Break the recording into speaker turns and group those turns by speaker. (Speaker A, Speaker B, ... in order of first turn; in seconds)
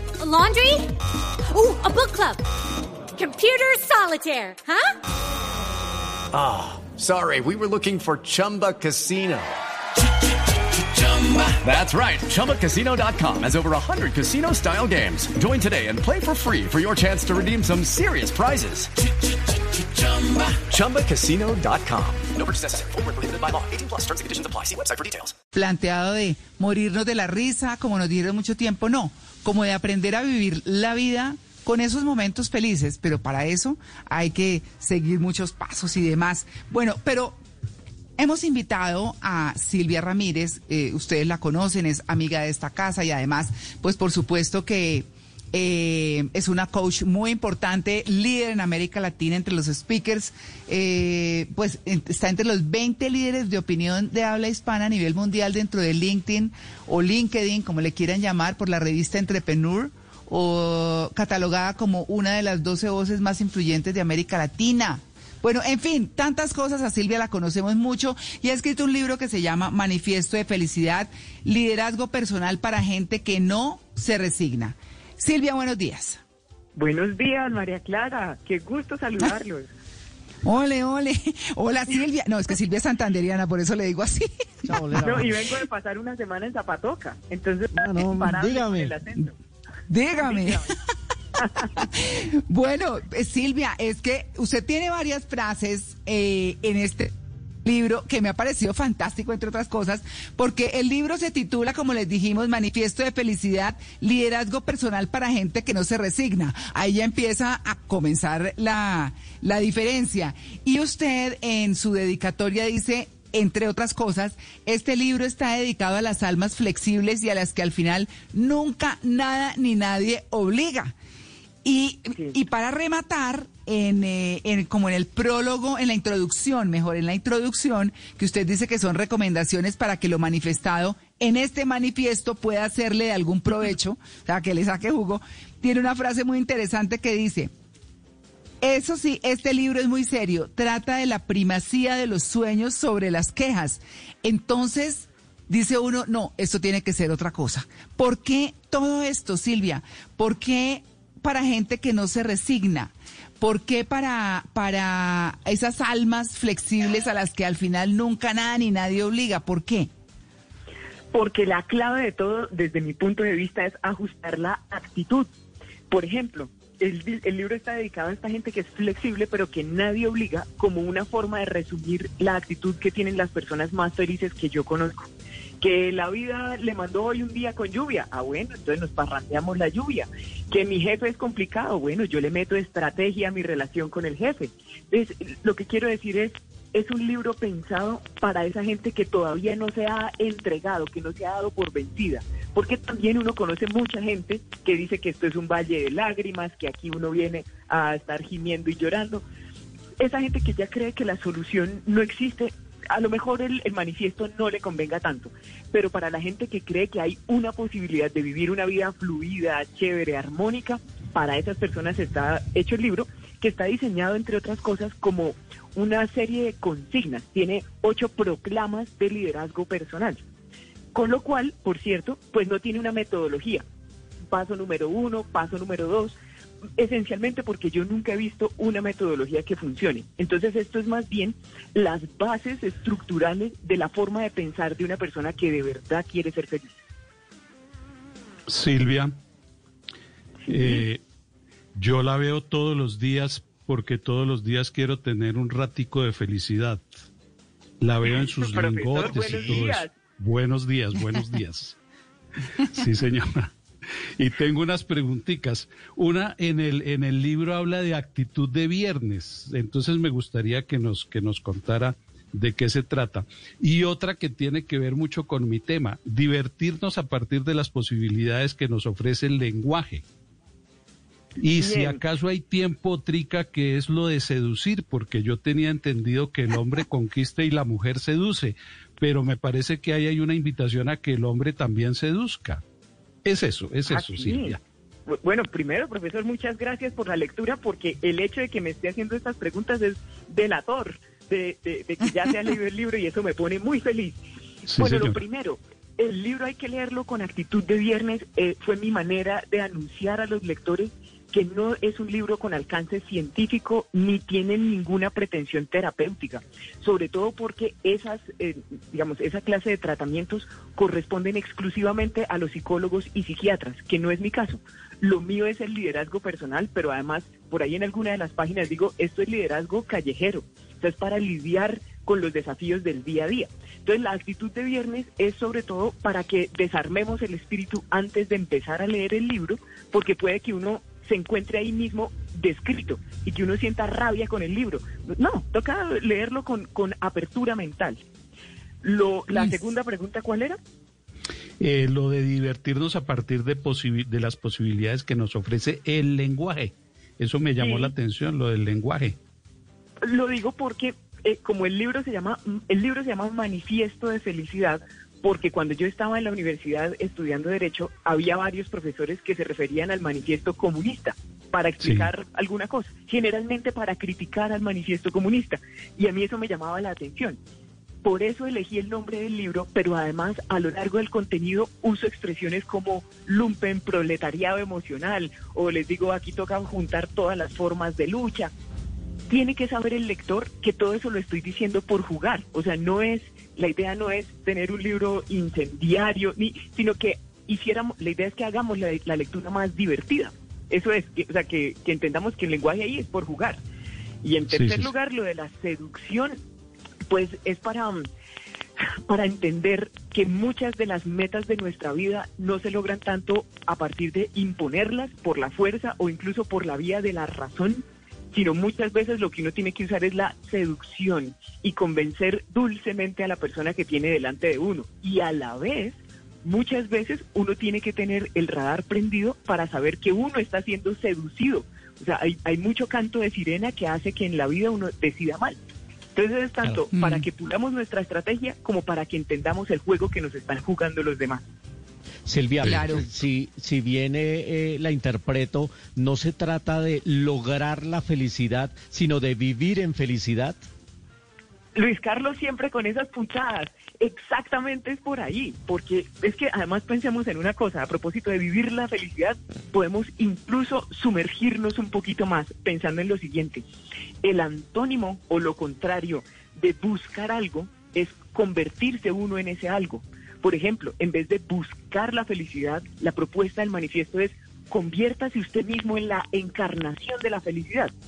Speaker A: 0.2-0.9, 1.5-2.4, 3.2-4.9
Speaker B: 6.3-9.5, 11.0-18.9, 20.0-25.3
Speaker C: 25.5-37.4, 38.2-76.2, 80.4-84.7, 89.9-90.7, 91.7-97.1, 97.6-120.9, 121.6-137.5, 138.6-159.9, 426.9-427.2, 432.6-433.1
Speaker D: 76.8-79.7, 85.0-89.3, 90.2-90.7, 91.4-91.7, 161.1-165.3, 165.9-175.1, 175.6-199.2, 200.0-220.2, 220.9-223.6, 224.3-226.1, 226.8-236.8, 240.4-240.8, 248.1-249.9, 271.6-272.0, 283.9-338.0, 338.8-340.6, 347.6-347.9, 350.0-367.4, 368.0-378.5, 379.3-393.6, 394.2-396.4, 397.1-398.1, 399.1-425.6, 426.1-431.4, 441.7-453.6, 454.2-467.9
Speaker E: 84.6-85.3, 87.8-88.9, 432.2-440.6
Speaker F: 238.5-239.1, 240.5-241.0, 241.8-246.8, 247.8-251.8, 252.6-253.5, 254.2-270.0, 271.4-282.6, 283.2-284.6, 294.7-295.2, 341.6-349.2, 361.8-362.1, 394.5-394.9